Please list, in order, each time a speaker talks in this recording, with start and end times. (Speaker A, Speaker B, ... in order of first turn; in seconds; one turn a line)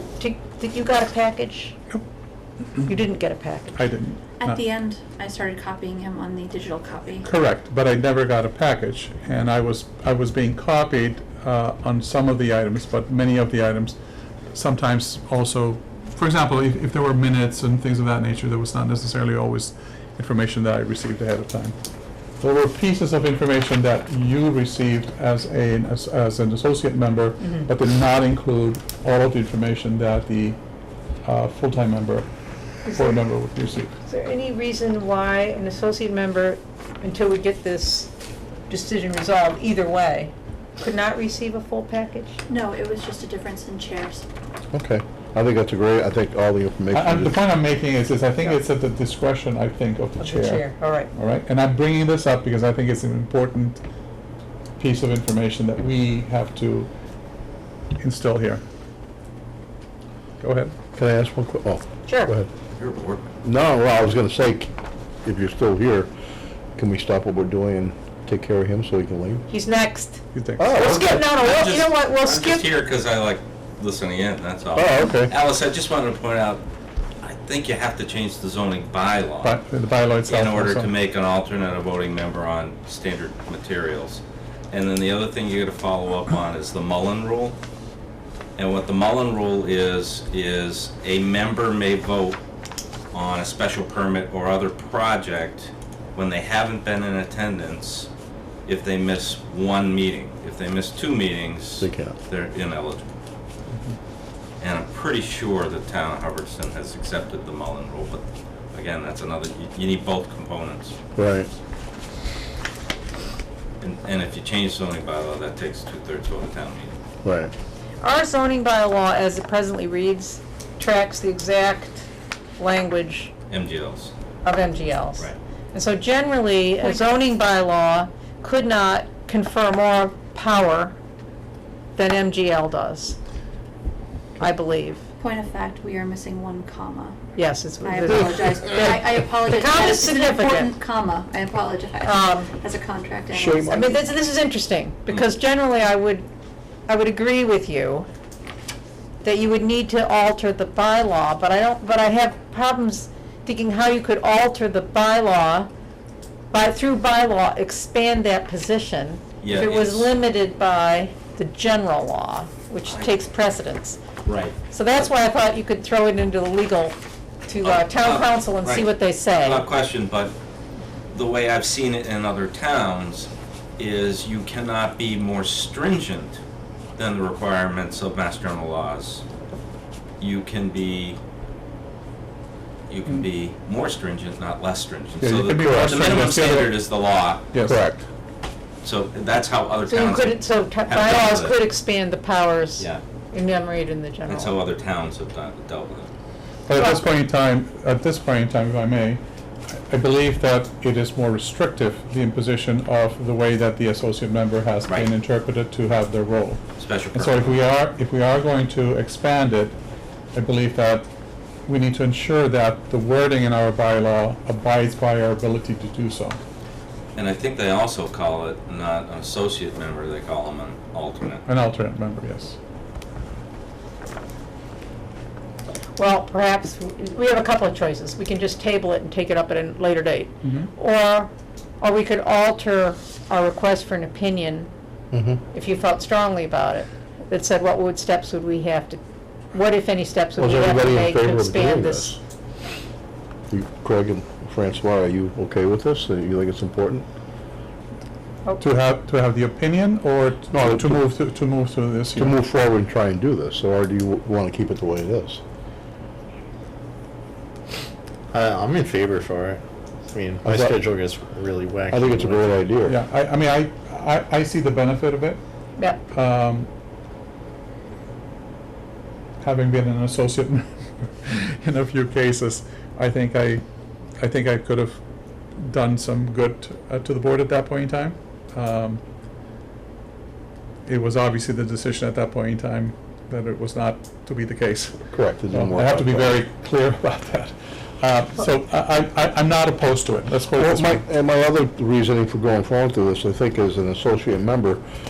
Speaker A: 0.2-1.7
Speaker A: 2.9-3.8
Speaker B: 3.7-4.6
Speaker C: 4.4-7.2
Speaker B: 7.2-14.0
Speaker B: 14.5-21.7
Speaker B: 22.4-30.6
Speaker A: 27.4-27.7
Speaker B: 31.2-32.3
Speaker A: 32.8-33.2
Speaker B: 32.9-33.9
Speaker A: 34.0-38.1
Speaker A: 38.7-42.4
Speaker C: 42.5-44.2
Speaker D: 44.7-47.4
Speaker B: 46.9-53.8
Speaker A: 50.2-51.1
Speaker B: 54.8-56.9
Speaker B: 58.0-58.6
Speaker B: 60.4-60.7
Speaker D: 60.9-62.5
Speaker A: 62.0-62.3
Speaker E: 62.7-63.3
Speaker D: 63.4-64.7
Speaker D: 65.2-66.1
Speaker D: 66.8-69.4
Speaker A: 69.5-72.7
Speaker B: 70.3-70.8
Speaker D: 70.6-71.2
Speaker E: 71.2-76.6
Speaker D: 74.7-75.3
Speaker E: 77.2-79.5
Speaker B: 79.4-80.9
Speaker E: 80.3-87.6
Speaker E: 88.6-92.4
Speaker E: 93.1-98.1
Speaker E: 98.7-103.1
Speaker D: 101.8-102.2
Speaker E: 104.6-110.9
Speaker D: 111.2-111.5
Speaker E: 113.8-116.9
Speaker D: 117.2-117.5
Speaker A: 118.0-122.0
Speaker A: 122.6-123.3
Speaker E: 123.5-124.1
Speaker A: 124.4-130.9
Speaker A: 131.9-133.2
Speaker A: 134.4-135.0
Speaker C: 135.2-143.9
Speaker A: 137.3-140.8
Speaker A: 142.0-142.5
Speaker D: 143.3-143.9
Speaker A: 143.7-146.3
Speaker A: 146.9-148.1
Speaker A: 149.2-155.7
Speaker A: 156.5-164.0
Speaker E: 159.4-160.1
Speaker E: 164.2-164.6
Speaker A: 164.7-166.9
Speaker A: 167.5-169.6
Speaker E: 167.6-170.3
Speaker E: 171.1-176.4
Speaker E: 177.0-179.2
Speaker E: 180.2-181.2
Speaker E: 182.9-187.4
Speaker B: 185.2-186.8
Speaker B: 187.5-187.9
Speaker D: 187.7-188.0
Speaker E: 188.8-191.6
Speaker A: 189.9-194.5
Speaker E: 194.2-196.1
Speaker B: 196.7-199.2
Speaker A: 196.7-197.0
Speaker B: 199.7-206.6
Speaker E: 206.8-207.6
Speaker B: 207.1-209.8
Speaker B: 210.3-211.1
Speaker B: 211.7-216.4
Speaker E: 217.1-221.4
Speaker B: 221.5-222.6
Speaker A: 225.9-234.7
Speaker B: 230.4-230.7
Speaker D: 235.1-235.4
Speaker A: 235.5-239.0
Speaker A: 239.5-242.2
Speaker D: 240.4-242.2
Speaker D: 243.5-247.0
Speaker B: 248.6-252.4
Speaker D: 250.5-251.0
Speaker D: 252.2-255.4
Speaker F: 258.3-262.6
Speaker D: 260.4-260.8
Speaker D: 261.9-262.9
Speaker B: 262.8-265.4
Speaker B: 266.1-266.7
Speaker B: 269.4-273.6
Speaker B: 274.2-275.0
Speaker B: 275.6-279.0
Speaker B: 280.9-291.0
Speaker D: 285.1-286.4
Speaker D: 290.5-294.8